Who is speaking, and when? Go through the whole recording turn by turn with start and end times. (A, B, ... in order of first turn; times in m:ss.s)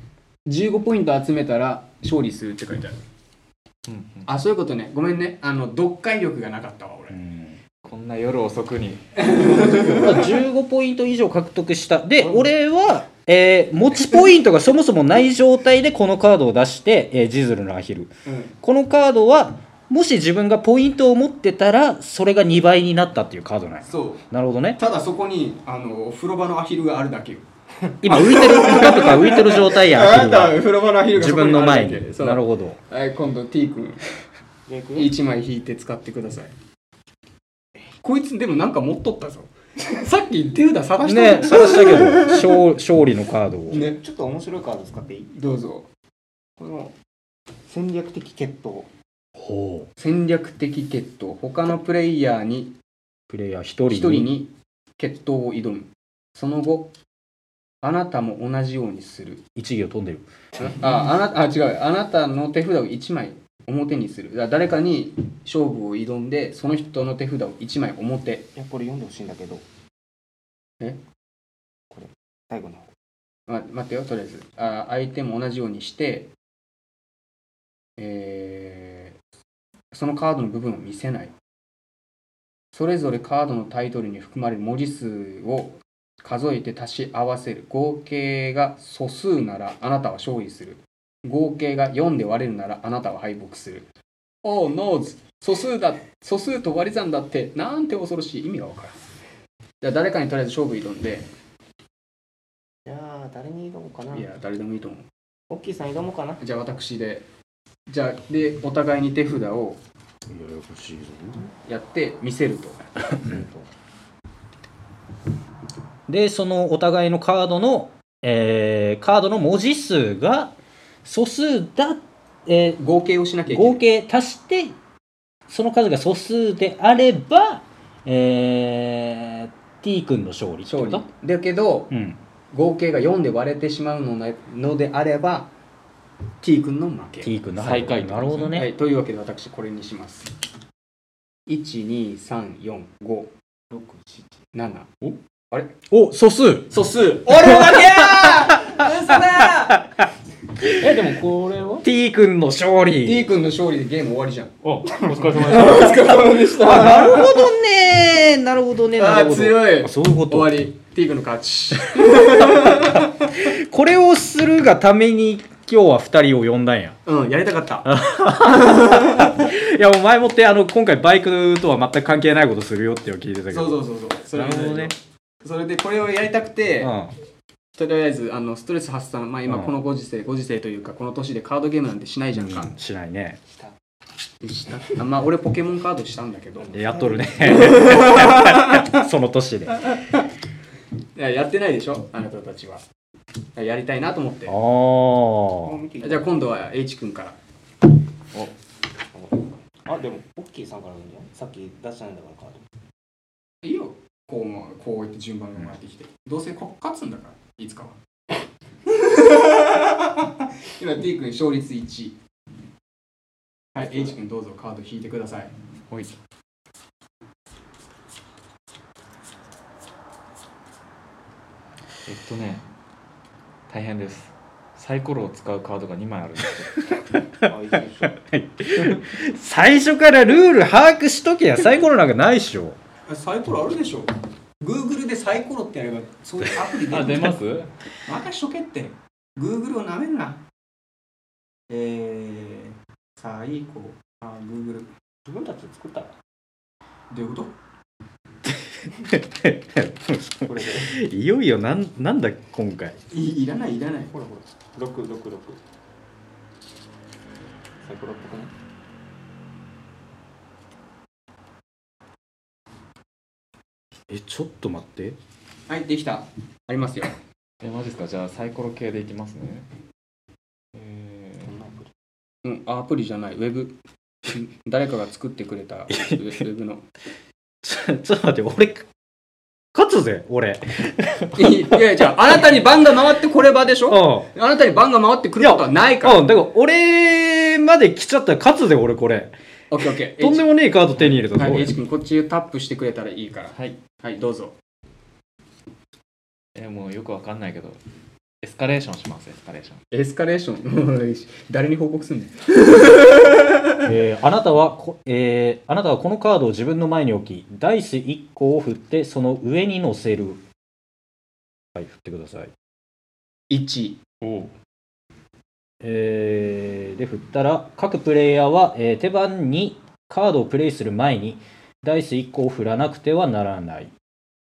0:00.4-0:03.0 A
0:03.8-0:04.3 B
0:04.3-0:07.2 A
0:07.1-0:07.6 C
0:07.8-0:09.9 B
0:09.2-0:10.3 A
0:09.9-0:24.8 C
0:18.2-0:18.5 A
0:23.8-0:24.2 A
0:24.8-0:27.4 A
0:28.0-0:32.8 C
0:28.0-0:34.0 A
0:34.7-0:35.1 D
0:34.9-0:36.5 A
0:38.0-0:42.6 A
0:41.0-0:43.8 C
0:43.7-0:45.3 D
0:43.7-0:44.0 A
0:45.3-0:45.9 A
0:46.6-0:46.9 D
0:47.7-0:48.9 D
0:49.4-0:49.9 C
0:50.0-0:52.7 A
0:53.3-0:54.3 C
0:53.9-0:56.9 A
0:57.8-0:59.4 A
0:59.6-1:00.3 C
1:00.6-1:08.5 A
1:08.5-1:09.6 D
1:11.9-1:12.9 D
1:13.5-1:16.3 A
1:18.0-1:19.2 A
1:19.9-1:21.3 A
1:22.7-1:33.9 A
1:34.4-1:39.0 A
1:39.8-1:41.3 A
1:42.8-1:44.3 D
1:44.1-1:45.1 A
1:45.5-1:46.4 D
1:46.4-1:47.2 A
1:47.9-1:49.8 A
1:50.3-1:51.5 C
1:51.7-1:52.8 A
1:53.2-1:53.7 D
1:56.1-2:00.5 C
2:01.0-2:02.8 C
2:02.8-2:03.8 A
2:03.5-2:04.8 C
2:05.5-2:11.0 C
2:10.6-2:11.9 A
2:11.9-2:12.2 C
2:12.5-2:15.5 A
2:16.4-2:17.3 A
2:17.2-2:18.7 C
2:17.6-2:18.6 B
2:18.5-2:20.3 A
2:21.5-2:23.3 A
2:23.7-2:24.5 D
2:24.5-2:24.9 A
2:25.9-2:26.7 C
2:26.7-2:29.8 A
2:27.3-2:29.1 C
2:29.7-2:30.0 C
2:30.6-2:30.9 C
2:30.7-2:31.8 B
2:31.8-2:33.3 C
2:33.0-2:37.5 A
2:34.6-2:36.3 B
2:36.4-2:40.6 C
2:39.0-2:43.3 A
2:42.0-2:47.0 C
2:47.0-2:49.4 A
2:47.8-2:53.8 C
2:53.5-2:56.9 A
2:54.3-2:54.9 C
2:56.8-2:57.1 C
2:57.7-3:02.7 A
2:59.5-2:59.7 C
3:02.4-3:03.4 C
3:04.4-3:06.7 A
3:06.6-3:07.9 D
3:06.7-3:10.0 C
3:07.4-3:09.0 A
3:09.8-3:10.2 A
3:11.2-3:12.8 A
3:13.6-3:14.6 A
3:14.5-3:15.8 C
3:15.6-3:16.5 D
3:16.0-3:17.4 A
3:19.1-3:22.6 D
3:23.6-3:28.0 A
3:28.8-3:32.2 A
3:33.7-3:35.5 A
3:33.8-3:34.1 D
3:35.9-3:36.2 B
3:42.0-3:42.6 B
3:43.7-3:46.8 B
3:47.4-3:52.8 C
3:47.4-3:48.2 D
3:53.1-3:57.4 A
3:56.8-3:57.7 B
3:58.1-4:00.4 A
4:01.7-4:04.9 A
4:05.2-4:06.1 D
4:07.1-4:07.5 A
4:08.4-4:13.0 C
4:10.5-4:10.8 D
4:13.1-4:14.1 A
4:14.1-4:15.6 D
4:17.8-4:18.5 D
4:24.1-4:25.2 C
4:25.7-4:27.1 A
4:27.6-4:29.6 B
4:30.7-4:31.5 B
4:31.4-4:31.9 D
4:32.4-4:36.8 A
4:35.9-4:36.2 C
4:37.6-4:38.9 C
4:39.7-4:41.8 C
4:41.3-4:46.2 A
4:43.9-4:44.3 C
4:45.4-4:49.3 C
4:49.7-4:50.5 A
4:50.2-4:51.7 C
4:51.3-4:54.6 A
4:56.5-4:57.8 B
4:58.4-4:59.8 B
4:59.9-5:03.8 A
5:03.8-5:10.4 C
5:11.7-5:12.5 C
5:13.5-5:14.0 A
5:14.2-5:14.5 B
5:15.8-5:23.9 C